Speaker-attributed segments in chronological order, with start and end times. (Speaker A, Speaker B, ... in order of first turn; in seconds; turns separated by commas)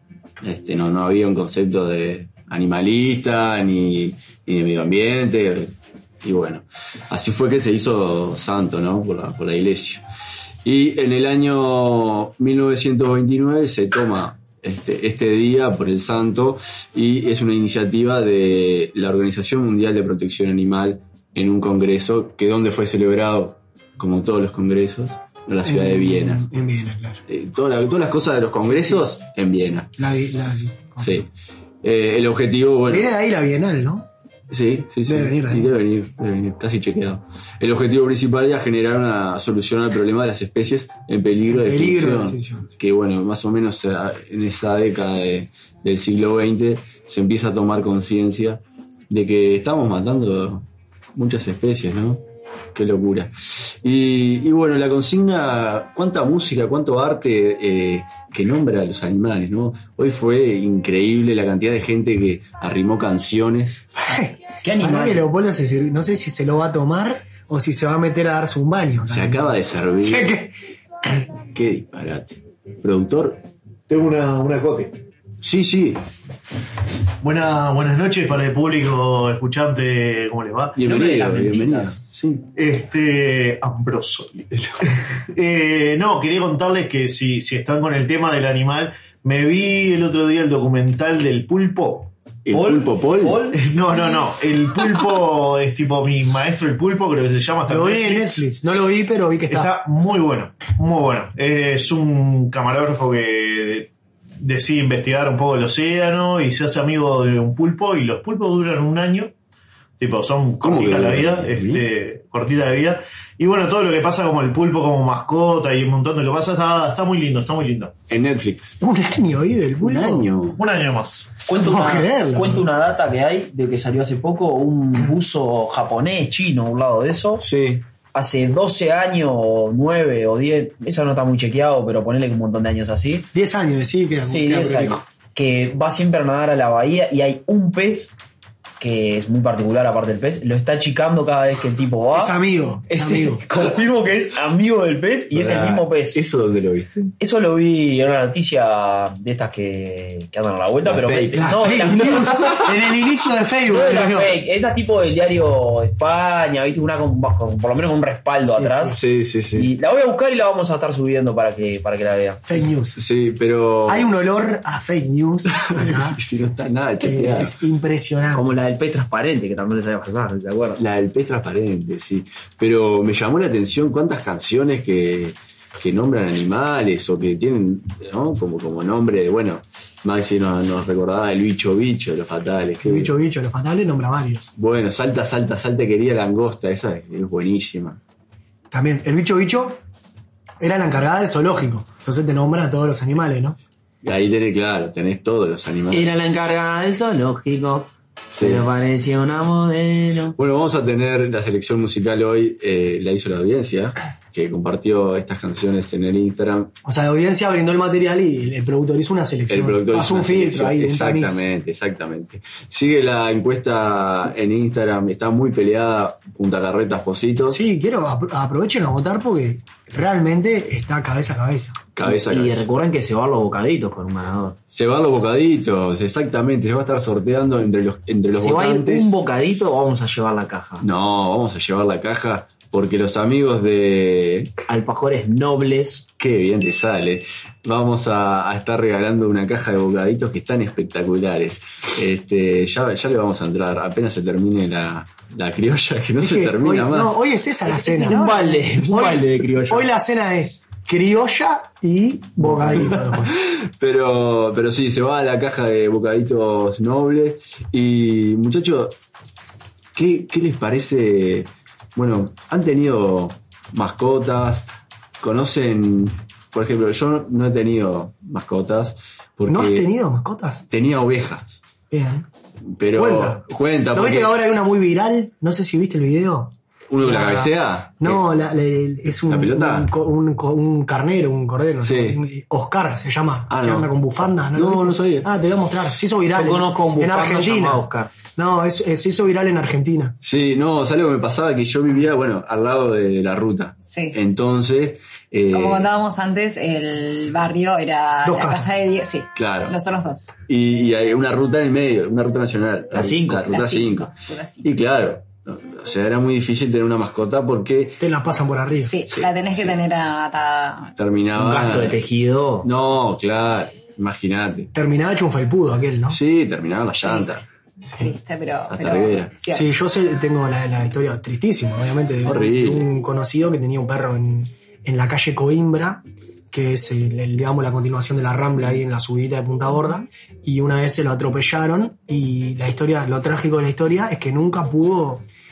Speaker A: 0.4-10.0, Speaker A: 10.6-26.4, Speaker B: 25.6-27.2, Speaker A: 27.3-29.9, Speaker B: 28.6-29.1, Speaker B: 30.0-31.2, Speaker A: 31.0-31.3, Speaker A: 31.8-33.1, Speaker B: 32.9-34.1, Speaker A: 34.5-52.2, Speaker B: 35.0-35.7, Speaker B: 41.5-42.7, Speaker A: 52.7-64.0, Speaker B: 64.0-70.5, Speaker C: 64.6-65.3, Speaker A: 69.1-70.3, Speaker A: 71.5-73.4, Speaker D: 73.9-75.0, Speaker A: 75.4-76.0, Speaker D: 77.2-80.8, Speaker A: 80.8-82.5, Speaker C: 80.9-82.0, Speaker D: 82.5-84.5, Speaker D: 85.3-92.1, Speaker A: 92.4-93.5, Speaker C: 92.5-93.6, Speaker D: 93.5-98.4, Speaker B: 97.7-99.7, Speaker D: 99.5-109.3, Speaker D: 110.0-117.9, Speaker A: 110.6-111.8, Speaker A: 118.1-118.8, Speaker B: 118.8-120.3, Speaker A: 119.8-120.6, Speaker D: 120.5-121.4, Speaker C: 121.4-127.5, Speaker B: 121.5-122.7, Speaker A: 127.4-127.8, Speaker C: 128.1-133.3, Speaker B: 133.3-135.0, Speaker C: 134.2-138.2, Speaker C: 138.8-146.2, Speaker B: 142.1-143.4, Speaker A: 145.3-147.1, Speaker C: 147.2-152.6, Speaker A: 150.8-152.7, Speaker B: 151.3-154.4, Speaker C: 153.7-159.0, Speaker B: 158.4-159.0, Speaker A: 158.9-159.7, Speaker C: 159.5-162.5, Speaker B: 162.4-163.0, Speaker A: 162.9-164.1, Speaker B: 163.9-166.2, Speaker A: 165.5-167.5, Speaker B: 167.0-168.5, Speaker C: 168.3-170.8, Speaker A: 170.8-183.1, Speaker B: 182.8-184.5, Speaker A: 184.6-188.0, Speaker B: 188.7-189.8, Speaker B: 190.6-193.6, Speaker A: 194.0-196.1, Speaker C: 195.9-200.3, Speaker A: 198.3-198.7, Speaker A: 200.3-206.7, Speaker B: 206.8-211.4, Speaker A: 209.5-217.6, Speaker B: 217.5-221.8, Speaker A: 221.9-222.7, Speaker C: 222.0-224.6, Speaker A: 224.7-229.1, Speaker C: 228.3-230.8, Speaker A: 230.8-234.5, Speaker C: 234.7-236.1, Speaker A: 236.2-247.2, Speaker B: 246.2-248.3, Speaker E: 247.7-248.9, Speaker C: 247.9-249.9, Speaker B: 248.8-253.3, Speaker A: 252.8-259.0, Speaker A: 259.9-269.9, Speaker B: 269.4-270.6, Speaker A: 270.7-271.6, Speaker B: 271.9-272.3, Speaker A: 272.7-274.4, Speaker B: 272.9-290.1, Speaker A: 276.9-278.2, Speaker A: 279.3-279.9, Speaker A: 281.8-282.2, Speaker A: 283.5-285.3, Speaker C: 286.3-288.1, Speaker A: 290.2-295.9, Speaker E: 293.9-294.2, Speaker E: 295.5-300.3, Speaker B: 298.2-298.8, Speaker A: 299.3-299.8, Speaker A: 300.5-304.1, Speaker C: 302.9-303.6, Speaker E: 303.5-304.7, Speaker A: 304.6-308.0, Speaker B: 308.0-308.9, Speaker E: 308.8-310.9, Speaker A: 309.1-309.7, Speaker A: 311.0-312.0, Speaker C: 311.3-312.7, Speaker A: 312.6-314.7, Speaker B: 314.7-316.2, Speaker A: 316.1-317.4, Speaker E: 317.0-317.4, Speaker E: 317.9-319.7, Speaker A: 318.7-319.3, Speaker B: 319.5-335.2, Speaker A: 322.2-322.9